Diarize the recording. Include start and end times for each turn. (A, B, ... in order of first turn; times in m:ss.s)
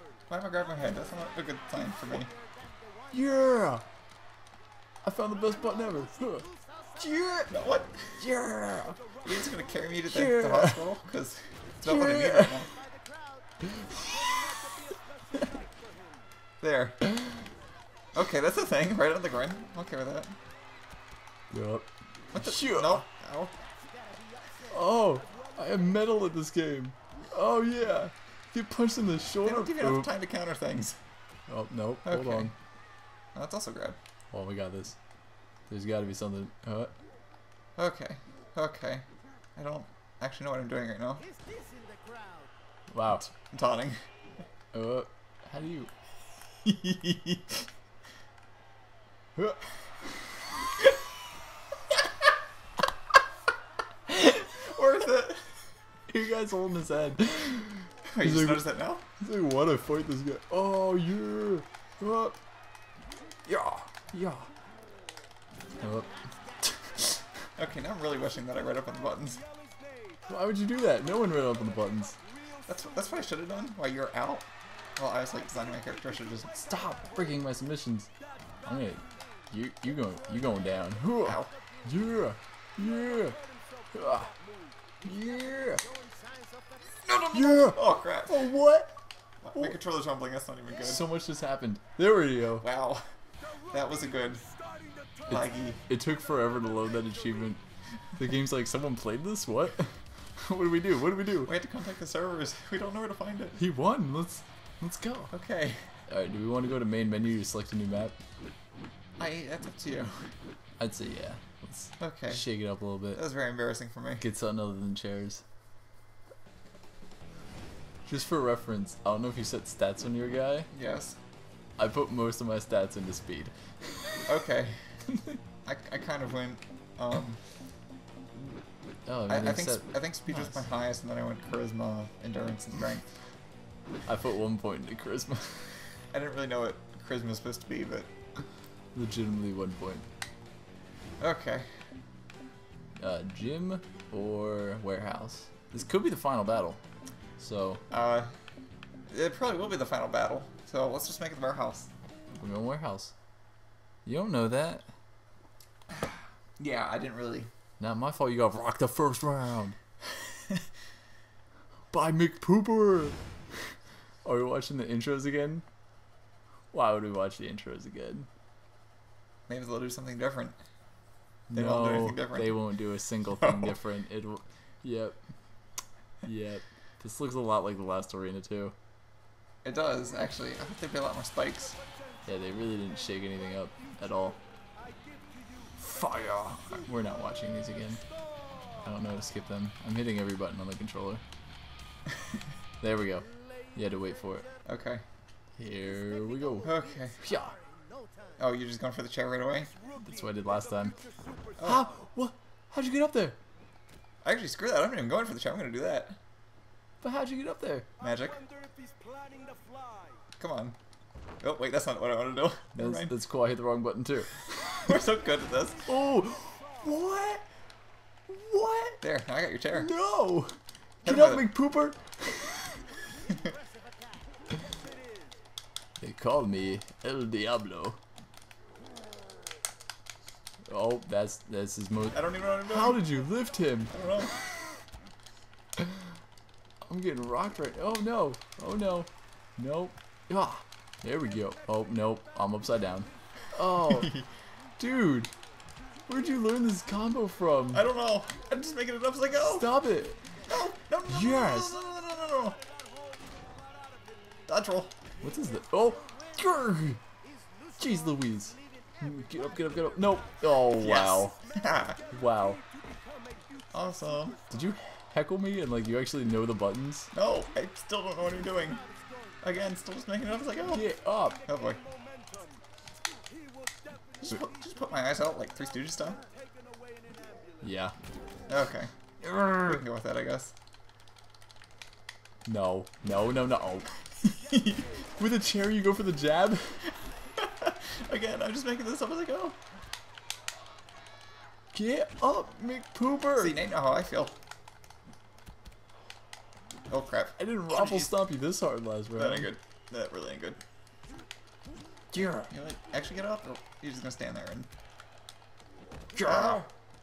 0:00.3-0:02.3 A
0:03.1-0:03.8 B
0:05.0-0:07.5 B
0:07.5-0:08.2 A
0:08.2-0:09.0 B
0:09.2-0:12.7 A
0:10.1-0:10.9 B
0:11.8-0:12.7 B
0:13.6-0:14.1 B
0:16.6-0:17.0 A
0:18.1-0:20.4 A
0:21.5-0:23.1 B
0:22.3-0:23.6 A
0:24.7-0:30.1 B
0:29.4-0:31.0 A
0:31.5-0:32.5 B
0:32.0-0:32.6 A
0:33.3-0:34.0 A
0:34.3-0:35.0 B
0:35.7-0:36.9 B
0:37.8-0:41.3 A
0:42.9-0:43.3 B
0:43.2-0:44.0 A
0:44.7-0:45.9 B
0:46.6-0:47.7 A
0:54.2-0:55.5 A
0:56.1-1:02.4 B
0:58.1-0:59.0 A
1:03.5-1:04.5 B
1:05.8-1:07.1 B
1:07.6-1:09.4 A
1:10.3-1:12.2 B
1:12.7-1:16.7 A
1:16.6-1:18.1 B
1:18.6-1:23.4 B
1:21.2-1:21.5 A
1:23.9-1:24.3 B
1:25.0-1:25.9 B
1:27.1-1:29.0 B
1:27.3-1:28.4 A
1:29.4-1:31.0 A
1:30.8-1:32.7 B
1:32.6-1:33.1 A
1:33.7-1:34.4 A
1:35.3-1:35.8 A
1:35.3-1:37.6 B
1:38.2-1:41.5 B
1:41.4-1:43.6 A
1:43.6-1:45.3 B
1:45.3-1:45.9 A
1:46.1-1:48.2 B
1:49.2-1:50.3 A
1:50.8-1:53.2 B
1:52.0-1:52.5 A
1:53.1-1:54.2 A
1:54.2-1:55.4 B
1:58.1-2:00.7 B
2:00.7-2:01.2 A
2:01.8-2:04.2 B
2:04.3-2:04.9 A
2:05.1-2:05.4 B
2:05.6-2:07.4 A
2:09.1-2:10.6 B
2:09.3-2:13.1 A
2:14.1-2:15.7 B
2:16.1-2:18.1 A
2:19.0-2:20.1 B
2:21.2-2:21.8 A
2:23.0-2:26.8 B
2:27.4-2:27.8 B
2:27.9-2:28.3 A
2:29.1-2:31.9 A
2:32.4-2:33.1 B
2:34.1-2:34.9 B
2:35.9-2:37.5 A
2:37.8-2:39.8 B
2:41.9-2:43.7 B
2:44.2-2:45.6 B
2:46.7-2:48.3 B
2:49.5-2:50.6 A
2:51.5-2:55.2 B
2:51.5-2:52.6 A
2:53.4-2:53.8 A
2:56.2-2:58.8 B
2:59.6-3:01.8 A
3:02.3-3:04.4 B
3:05.8-3:08.0 B
3:08.8-3:11.2 B
3:12.8-3:14.5 B
3:14.6-3:15.0 A
3:15.6-3:17.6 B
3:16.6-3:17.2 A
3:18.4-3:19.7 A
3:20.0-3:21.1 B
3:21.6-3:21.9 A
3:21.6-3:23.4 B
3:24.2-3:26.2 A
3:27.0-3:27.9 B
3:28.0-3:28.4 A
3:30.4-3:30.8 A
3:31.4-3:33.1 A
3:32.8-3:35.0 B
3:34.8-3:35.9 A
3:35.8-3:37.4 B
3:38.3-3:39.0 B
3:39.0-3:39.9 A
3:39.7-3:42.8 B
3:41.0-3:41.5 A
3:46.0-3:48.0 B
3:50.7-3:54.0 B
3:52.1-3:53.0 A
3:53.9-3:54.4 A
3:55.8-3:56.1 B
3:56.9-4:04.2 B
4:03.8-4:04.2 A
4:04.8-4:05.3 B
4:06.1-4:07.9 B
4:07.7-4:09.7 A
4:09.4-4:10.2 B
4:10.5-4:12.6 A
4:11.1-4:11.8 B
4:14.5-4:15.0 A
4:15.2-4:17.0 B
4:17.8-4:21.4 B
4:20.8-4:22.0 A
4:22.1-4:22.6 B
4:23.7-4:24.4 A
4:24.5-4:27.1 B
4:27.1-4:28.8 A
4:29.4-4:30.8 A
4:30.7-4:31.4 B
4:31.5-4:31.8 A
4:34.2-4:36.2 A
4:37.6-4:38.0 B
4:38.5-4:38.9 A
4:39.2-4:39.8 B
4:39.6-4:40.5 A
4:42.5-4:43.9 B
4:44.7-4:46.9 B
4:47.4-4:49.6 A
4:51.7-4:53.6 B
4:53.4-4:54.4 A
4:56.9-4:58.1 A
4:57.4-4:59.5 B
4:59.2-5:00.6 A
5:02.1-5:02.5 B
5:02.5-5:04.7 A
5:06.1-5:06.7 B
5:06.2-5:06.7 A